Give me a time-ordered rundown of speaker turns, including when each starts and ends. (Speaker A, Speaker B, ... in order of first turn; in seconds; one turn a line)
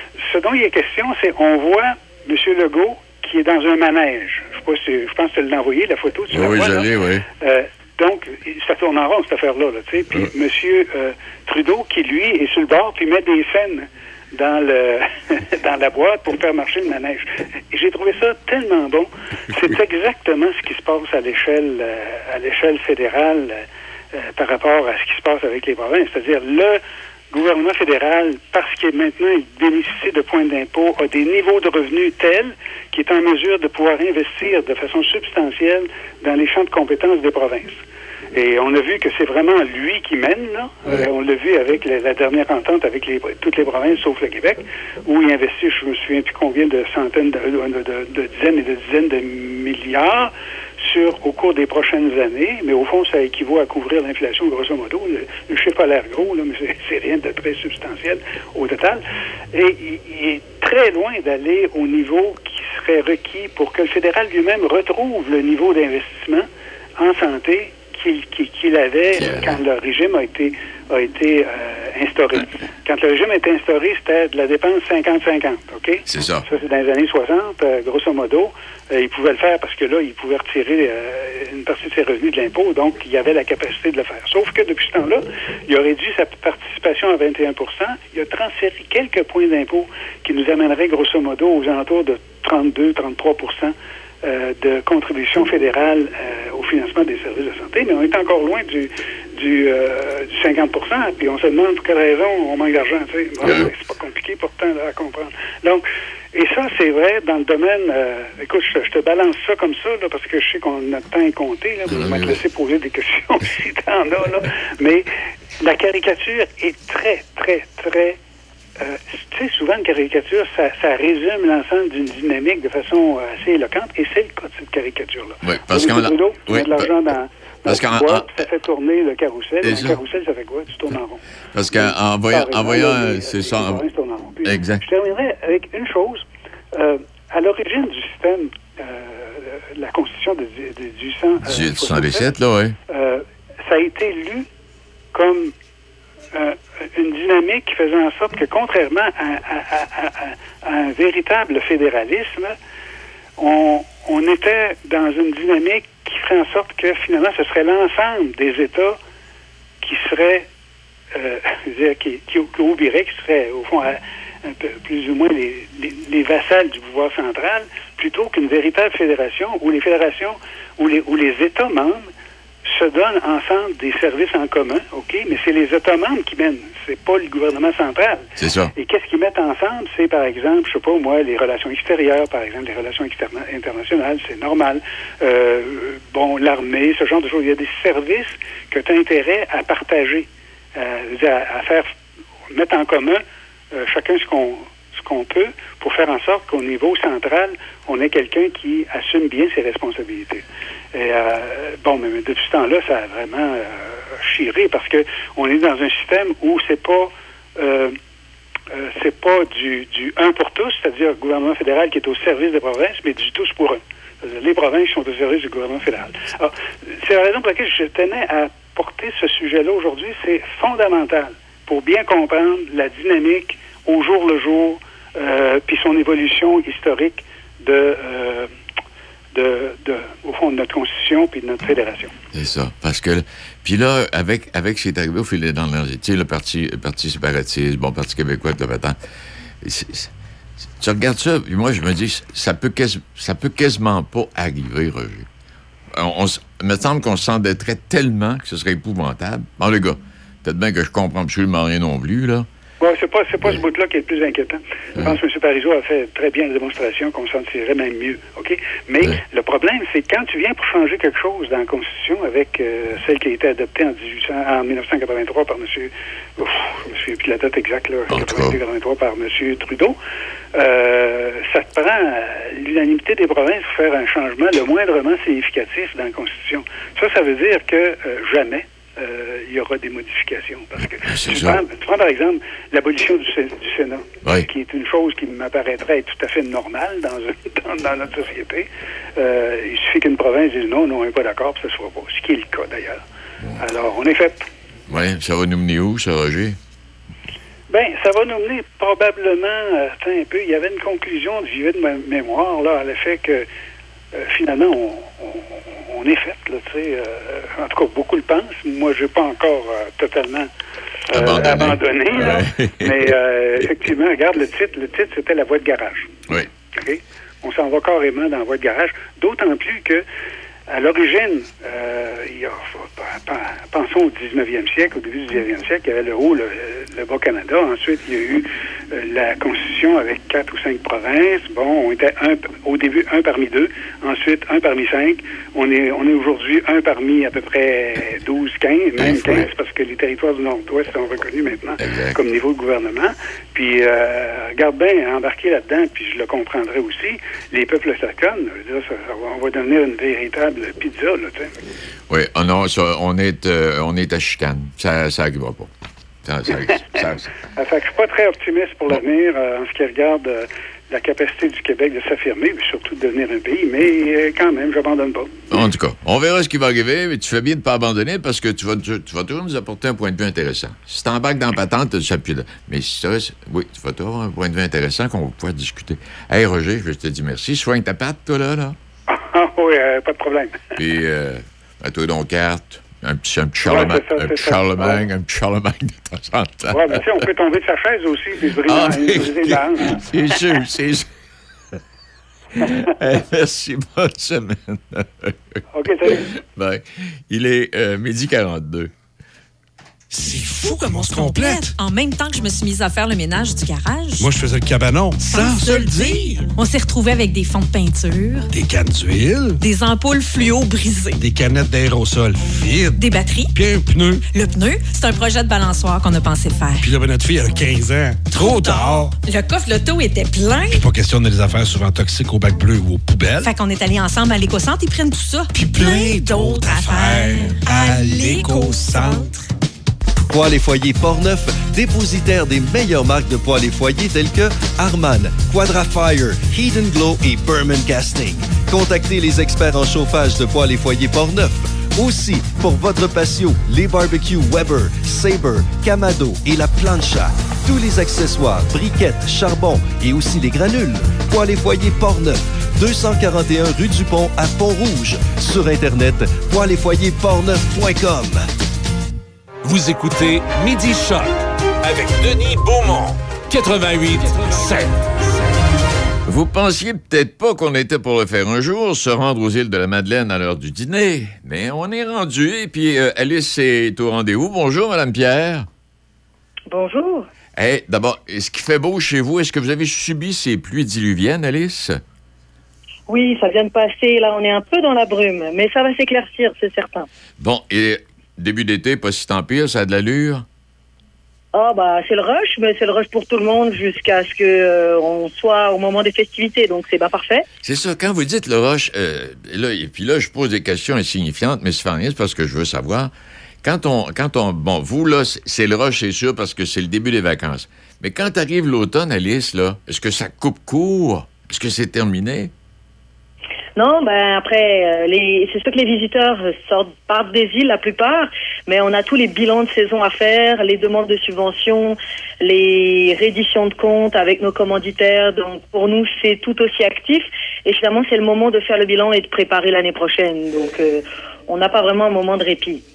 Speaker A: 0.2-26.8
Speaker B: 6.3-7.2
Speaker A: 27.3-37.8
Speaker A: 38.3-59.0
Speaker A: 59.5-66.5
Speaker A: 67.0-115.1
Speaker B: 69.2-69.6
Speaker B: 76.1-76.5
Speaker B: 103.4-103.7
Speaker B: 111.9-112.4
Speaker A: 115.6-118.2
Speaker A: 118.8-142.3
Speaker B: 125.4-127.0
Speaker B: 127.7-128.4
Speaker B: 129.6-130.0
Speaker B: 131.5-133.8
Speaker B: 134.4-134.8
Speaker B: 141.5-142.8
Speaker A: 142.9-144.5
Speaker A: 145.1-145.5
Speaker A: 146.3-152.6
Speaker A: 153.4-159.0
Speaker A: 159.8-160.5
Speaker A: 161.1-172.1
Speaker A: 172.7-191.9
Speaker B: 178.4-178.7
Speaker A: 192.5-208.0
Speaker A: 208.7-228.5
Speaker A: 229.3-232.1
Speaker B: 232.3-239.0
Speaker B: 239.6-240.1
Speaker B: 240.8-245.3
Speaker B: 245.9-252.5
Speaker A: 252.8-270.0
Speaker B: 268.1-268.6
Speaker A: 270.6-293.0
Speaker B: 280.8-281.6
Speaker A: 293.6-294.4
Speaker B: 294.9-296.6
Speaker A: 297.7-303.5
Speaker A: 304.1-310.5
Speaker A: 311.1-316.1
Speaker B: 311.1-313.9
Speaker A: 316.7-320.0
Speaker A: 320.7-351.5
Speaker B: 339.0-339.5
Speaker B: 341.8-342.2
Speaker B: 352.1-355.7
Speaker B: 356.2-357.3
Speaker A: 357.6-365.6
Speaker B: 365.5-378.8
Speaker A: 379.1-380.6
Speaker B: 380.8-387.2
Speaker A: 383.6-385.0
Speaker A: 386.7-390.0
Speaker B: 388.7-391.1
Speaker B: 392.6-398.9
Speaker A: 395.7-396.3
Speaker C: 400.1-401.8
Speaker D: 400.3-404.3
Speaker C: 404.2-406.5
Speaker D: 405.2-408.5
Speaker C: 408.5-409.6
Speaker D: 409.6-411.2
Speaker C: 411.2-414.2
Speaker D: 413.0-413.5
Speaker D: 414.3-416.9
Speaker C: 416.8-419.2
Speaker D: 418.3-420.8
Speaker C: 420.7-423.5
Speaker D: 423.4-429.3
Speaker C: 425.5-429.3
Speaker E: 430.3-458.4
Speaker F: 459.6-465.5
Speaker B: 466.3-475.7
Speaker G: 476.7-477.2
Speaker B: 477.6-482.0
Speaker G: 483.1-487.1
Speaker B: 487.4-490.4
Speaker G: 491.5-497.4
Speaker B: 497.6-503.1
Speaker B: 503.6-512.5
Speaker G: 513.8-532.8